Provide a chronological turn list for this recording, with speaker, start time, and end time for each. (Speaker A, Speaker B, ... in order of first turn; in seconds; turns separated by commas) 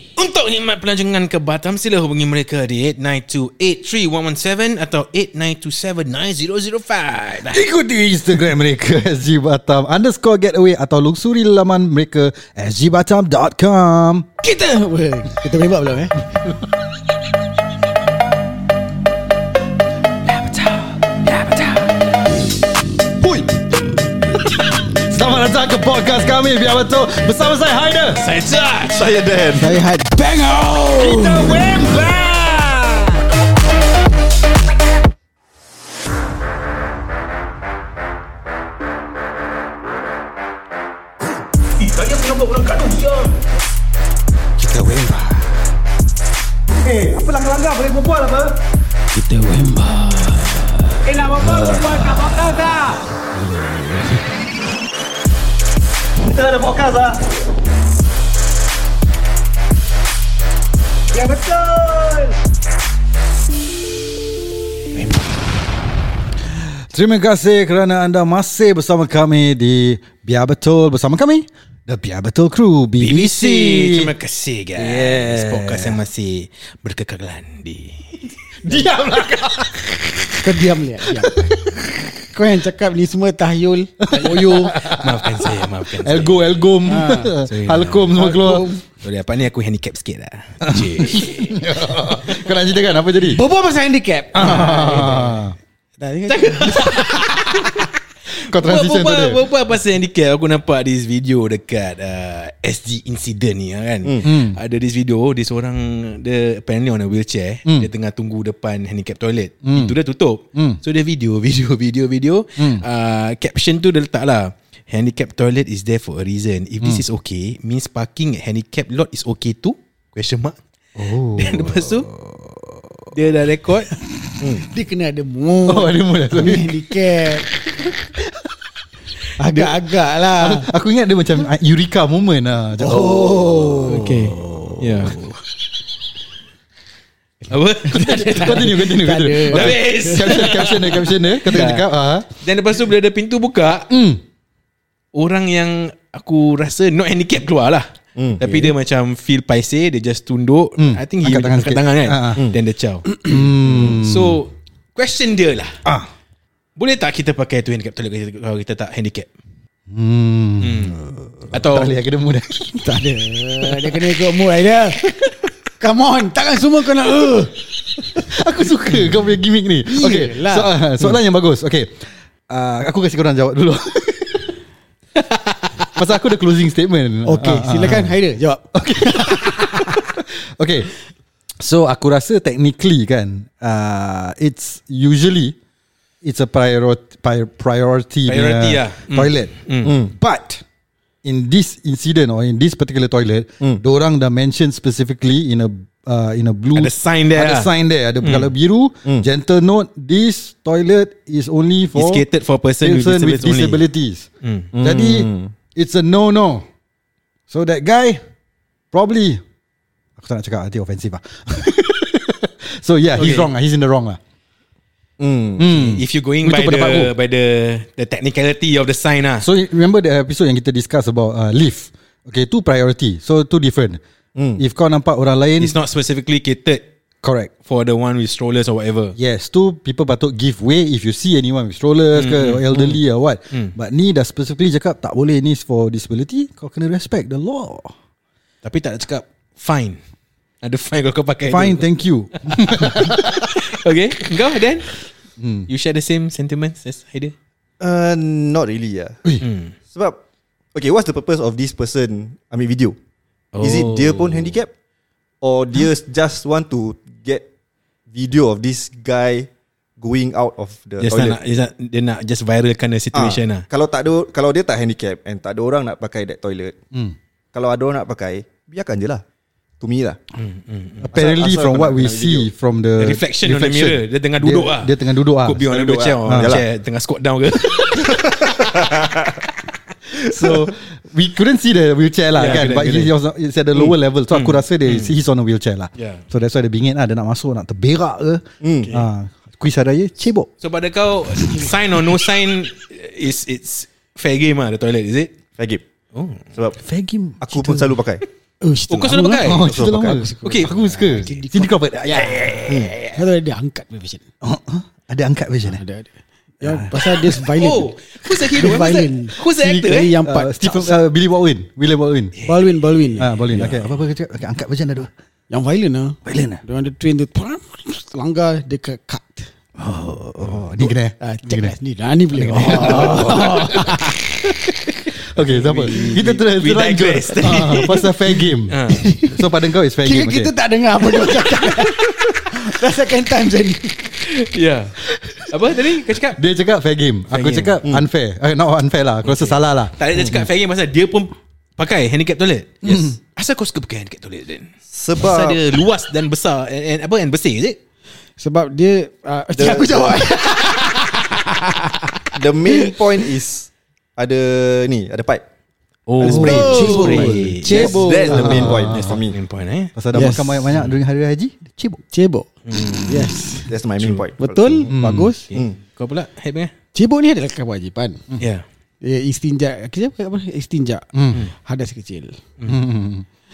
Speaker A: 0.1-7.6, Speaker B: 7.4-14.3, Speaker C: 14.4-16.2, Speaker C: 20.2-21.9, Speaker B: 23.2-23.5, Speaker B: 24.8-28.2, Speaker A: 28.2-29.1, Speaker D: 28.9-29.7, Speaker C: 29.5-31.7, Speaker B: 30.9-33.1, Speaker B: 41.8-43.3, Speaker C: 44.6-45.5, Speaker B: 46.7-48.6, Speaker C: 49.1-52.9, Speaker B: 51.0-52.9, Speaker C: 53.5-54.2, Speaker B: 56.2-57.2, Speaker B: 61.1-62.3, Speaker B: 66.5-74.1, Speaker A: 73.0-78.8, Speaker B: 74.8-76.0, Speaker B: 78.6-80.3, Speaker C: 80.3-81.3, Speaker B: 81.1-81.9, Speaker C: 82.3-84.7, Speaker B: 84.0-88.7, Speaker A: 84.1-86.6, Speaker C: 86.8-87.3, Speaker A: 87.4-88.2, Speaker C: 88.1-88.8, Speaker A: 89.0-92.4, Speaker B: 90.6-93.4, Speaker C: 93.2-95.4, Speaker B: 94.3-95.5, Speaker C: 96.0-97.2, Speaker A: 96.3-97.8, Speaker B: 98.3-99.4, Speaker A: 98.5-120.5, Speaker D: 104.0-104.3, Speaker B: 104.2-104.6, Speaker B: 109.6-110.0, Speaker B: 110.5-110.8, Speaker B: 112.6-112.8, Speaker B: 121.0-123.1, Speaker A: 121.4-122.1, Speaker A: 123.1-123.9, Speaker C: 124.6-127.5, Speaker B: 125.7-126.9, Speaker B: 127.8-128.5, Speaker C: 129.4-130.7, Speaker B: 130.4-135.2, Speaker C: 132.8-134.4, Speaker A: 134.8-135.4, Speaker A: 137.5-138.8, Speaker C: 137.9-140.1, Speaker B: 137.9-142.3, Speaker A: 139.5-143.9, Speaker B: 143.9-144.2, Speaker A: 145.1-147.9, Speaker D: 148.2-148.7, Speaker A: 148.4-155.8, Speaker B: 150.8-152.5, Speaker B: 153.2-154.4, Speaker D: 153.7-153.9, Speaker B: 155.8-156.1, Speaker A: 156.8-159.3, Speaker B: 159.9-164.0, Speaker A: 160.6-162.0, Speaker C: 162.8-165.1, Speaker C: 165.8-167.6, Speaker B: 168.2-174.5, Speaker C: 169.8-170.8, Speaker B: 175.9-178.2, Speaker C: 177.2-180.1, Speaker B: 178.7-180.9, Speaker B: 181.6-185.6, Speaker B: 186.2-189.5, Speaker A: 188.3-189.9, Speaker D: 189.8-190.1, Speaker B: 190.1-190.6, Speaker B: 191.2-202.2, Speaker A: 196.7-197.7, Speaker A: 198.2-198.5, Speaker A: 201.9-203.8, Speaker B: 202.8-204.3, Speaker A: 204.4-204.7, Speaker D: 204.7-205.5, Speaker B: 204.8-206.7, Speaker B: 207.5-208.2, Speaker B: 208.9-209.4, Speaker B: 210.2-214.2, Speaker A: 213.2-213.5, Speaker D: 215.2-215.7, Speaker B: 215.6-217.1, Speaker A: 215.6-219.5, Speaker B: 219.4-224.0, Speaker D: 224.3-224.6, Speaker B: 224.6-225.7, Speaker A: 225.6-226.8, Speaker B: 227.2-227.5, Speaker A: 227.6-229.1, Speaker B: 229.2-237.9, Speaker A: 232.1-232.9, Speaker A: 238.6-240.0, Speaker A: 240.6-241.8, Speaker B: 241.4-243.3, Speaker A: 242.4-244.9, Speaker B: 245.4-245.7, Speaker A: 245.7-247.3, Speaker D: 247.8-249.2, Speaker A: 249.4-249.7, Speaker D: 249.9-250.2, Speaker D: 250.7-252.9, Speaker A: 253.5-254.6, Speaker D: 253.6-254.7, Speaker D: 255.4-257.4, Speaker D: 258.1-261.4, Speaker A: 261.0-263.6, Speaker D: 263.1-266.8, Speaker D: 267.5-269.2, Speaker D: 269.8-270.2, Speaker A: 270.4-271.1, Speaker B: 271.0-275.7, Speaker D: 271.1-272.5, Speaker A: 273.0-279.1, Speaker D: 275.7-276.6, Speaker B: 276.2-276.6, Speaker D: 277.7-279.4, Speaker D: 280.1-280.7, Speaker B: 280.1-290.5, Speaker A: 282.3-283.1, Speaker A: 283.7-285.1, Speaker A: 286.0-286.2, Speaker D: 288.6-288.9, Speaker A: 290.6-295.3, Speaker B: 291.4-291.7, Speaker A: 296.1-296.4, Speaker D: 296.5-296.8, Speaker B: 296.8-298.0, Speaker D: 297.4-298.2, Speaker C: 298.6-302.3, Speaker A: 298.9-299.7, Speaker B: 299.4-302.9, Speaker D: 299.5-300.2, Speaker A: 300.4-300.8, Speaker A: 302.1-303.1, Speaker D: 302.7-302.9, Speaker C: 303.1-304.2, Speaker B: 304.4-305.8, Speaker C: 305.7-306.1, Speaker B: 306.6-307.5, Speaker C: 306.6-311.0, Speaker A: 307.5-310.1, Speaker B: 309.6-312.3, Speaker C: 312.4-313.4, Speaker B: 313.2-315.1, Speaker A: 313.5-313.8, Speaker C: 315.5-319.5, Speaker B: 316.2-316.6, Speaker B: 319.8-321.7, Speaker C: 321.2-324.2, Speaker B: 322.4-324.0, Speaker A: 322.4-323.8, Speaker B: 325.3-330.5, Speaker A: 325.4-328.1, Speaker A: 328.7-329.0, Speaker C: 328.9-329.4, Speaker C: 330.0-334.1, Speaker A: 334.2-336.4, Speaker B: 335.1-335.5, Speaker B: 336.1-340.4, Speaker A: 337.3-337.8, Speaker A: 339.2-347.8, Speaker D: 340.1-340.4, Speaker B: 342.8-343.2, Speaker D: 344.9-345.6, Speaker C: 348.4-352.9, Speaker D: 349.5-350.2, Speaker D: 352.3-355.4, Speaker A: 356.1-359.9, Speaker C: 356.2-358.3, Speaker B: 356.2-359.2, Speaker D: 356.2-359.3, Speaker B: 359.9-362.0, Speaker C: 360.1-360.7, Speaker C: 362.1-362.5, Speaker A: 362.6-363.3, Speaker C: 363.0-363.7, Speaker D: 363.7-364.9, Speaker A: 364.0-364.2, Speaker C: 364.4-365.5, Speaker B: 364.9-365.3, Speaker A: 365.5-366.7, Speaker C: 366.9-368.2, Speaker A: 368.4-368.6, Speaker C: 369.0-371.1, Speaker B: 371.1-371.4, Speaker C: 371.6-372.4, Speaker B: 372.7-373.2